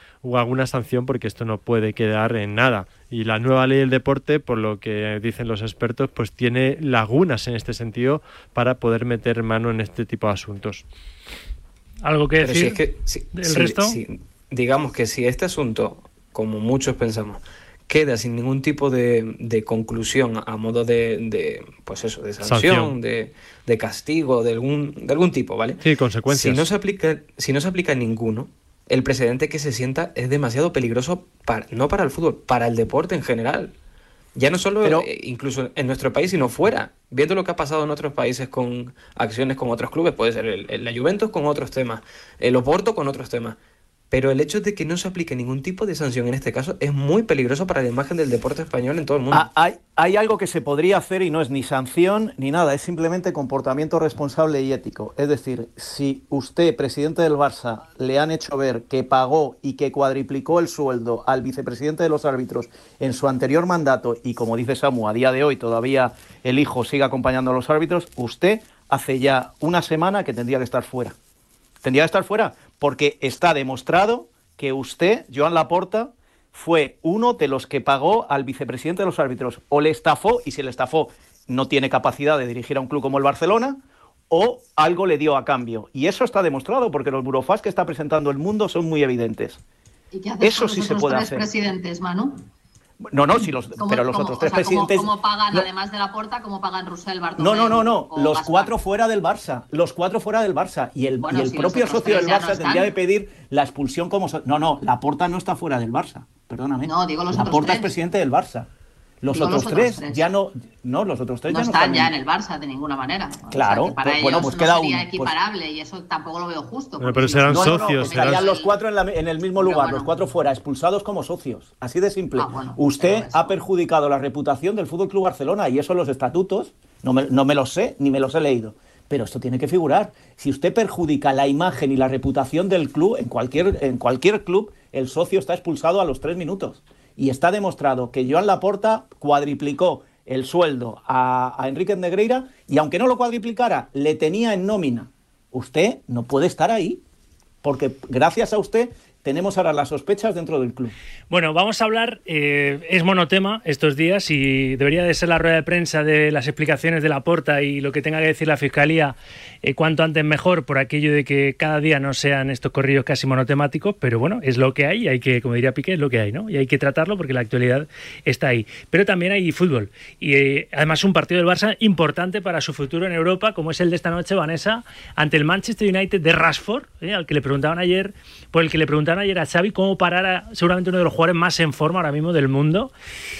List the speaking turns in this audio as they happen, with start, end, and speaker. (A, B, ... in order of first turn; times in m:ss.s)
0:00.2-0:10.8 A
0:12.0-0:12.8 B
0:12.4-0:33.7 C
0:13.3-0:14.0 B
0:22.4-0:22.9 A
0:25.8-0:26.7 A
0:34.3-0:43.6 C
0:44.1-0:49.5 C
0:49.3-1:11.2 D
1:11.8-1:29.6 D
1:30.1-1:32.4 E
1:30.4-1:31.5 D
1:33.0-1:35.7 D
1:33.8-1:38.7 E
1:37.4-1:48.7 D
1:41.3-1:42.9 E
1:46.8-1:47.9 E
1:49.2-1:52.1 D
1:49.3-1:50.2 E
1:51.5-1:58.7 E
1:53.5-1:55.4 D
1:57.0-1:58.5 A
1:57.5-2:27.0 D
1:59.6-2:00.1 E
2:02.4-2:03.6 E
2:27.6-2:30.9 D
2:31.3-3:02.9 B